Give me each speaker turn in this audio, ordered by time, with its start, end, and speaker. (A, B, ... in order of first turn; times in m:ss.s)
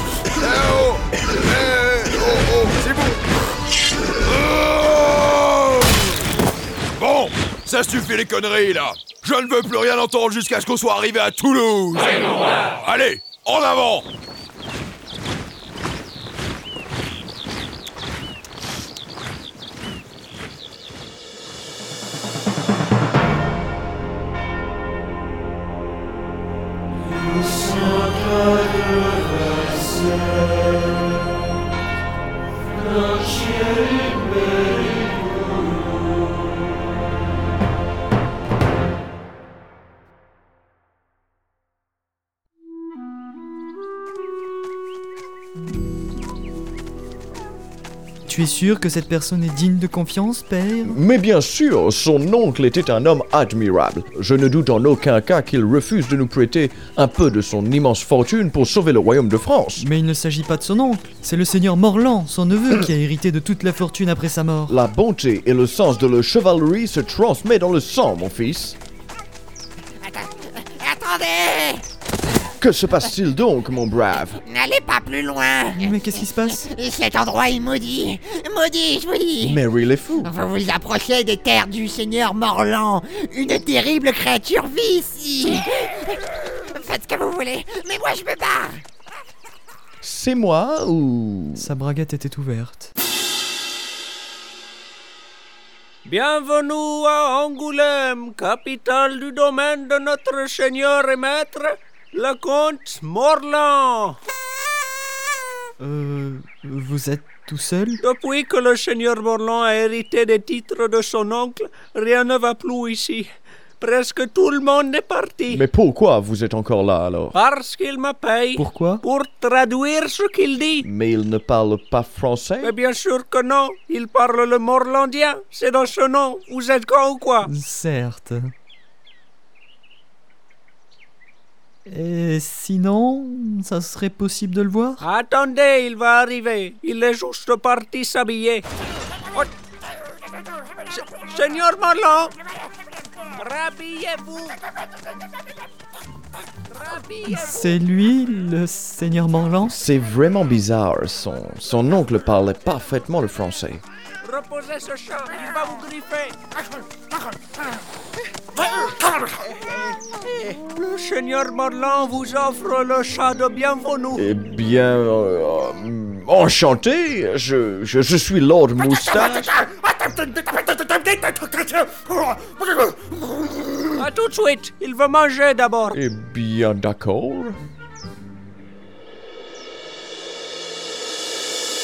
0:00.4-0:03.2 A
0:04.3-0:06.0 A
0:07.0-0:14.0 A
0:48.2-0:51.0 B
0:50.8-0:59.8 C
0:59.8-1:04.8 B
1:04.7-1:08.8 C
1:10.9-1:11.8 D
1:12.6-1:14.4 C
1:14.6-1:15.7 D
1:15.8-1:16.6 B
1:16.7-1:19.3 D
1:19.4-1:20.4 C
1:20.4-1:25.6 D
1:26.7-1:28.6 D
1:30.0-1:31.7 C
1:31.5-1:32.9 B
1:36.0-1:44.2 E
1:45.8-1:48.0 B
1:48.0-1:53.3 E
1:53.8-1:55.6 E
1:55.5-1:57.4 C
1:57.3-2:00.9 E
1:58.5-1:59.0 B
2:00.8-2:02.8 C
2:02.6-2:07.5 E
2:07.4-2:08.5 B
2:11.8-2:15.0 B
2:15.0-2:18.6 E
2:20.9-2:22.3 E
2:23.4-2:24.6 E
2:26.7-2:27.7 E
2:27.3-2:29.8 B
2:29.6-2:33.8 C
2:34.2-2:36.3 E
2:40.7-2:44.2 E
2:44.2-2:49.5 C
2:53.6-2:54.0 C
2:54.0-2:56.0 E
2:55.9-2:57.6 C